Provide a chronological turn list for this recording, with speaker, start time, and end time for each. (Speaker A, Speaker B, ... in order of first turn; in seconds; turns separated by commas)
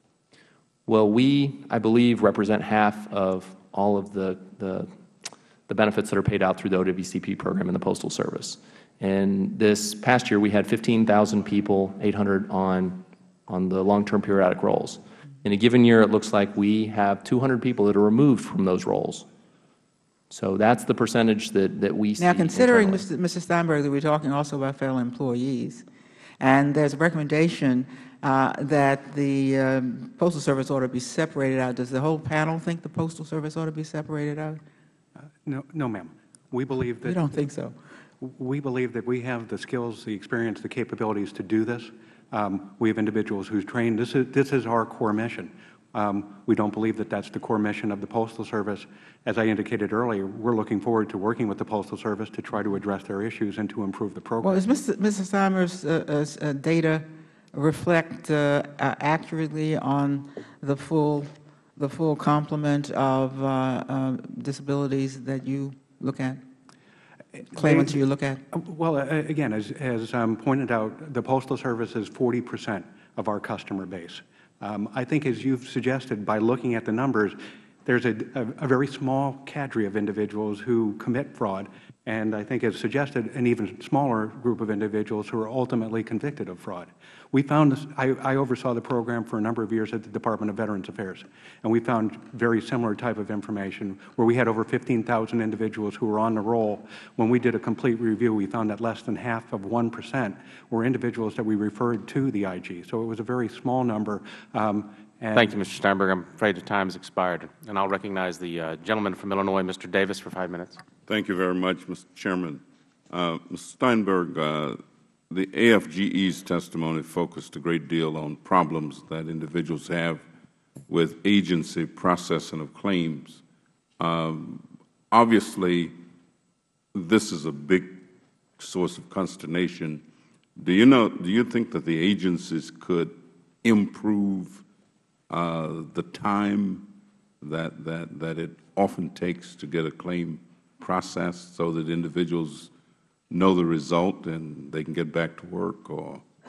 Speaker A: 0.9-4.9, Speaker A: 5.7-19.3, Speaker A: 20.3-23.1, Speaker B: 22.2-25.8, Speaker B: 26.4-34.6, Speaker C: 35.4-37.4, Speaker B: 37.0-37.8, Speaker C: 38.2-54.6, Speaker B: 54.4-66.4, Speaker C: 67.4-68.0, Speaker B: 67.5-68.4, Speaker C: 68.5-105.5, Speaker D: 105.3-110.8, Speaker E: 111.1-120.2, Speaker E: 120.9-123.4, Speaker E: 124.0-126.0, Speaker E: 126.9-128.0, Speaker E: 128.6-130.0, Speaker E: 130.6-134.6, Speaker E: 135.3-136.9, Speaker E: 137.4-142.7, Speaker E: 143.3-146.2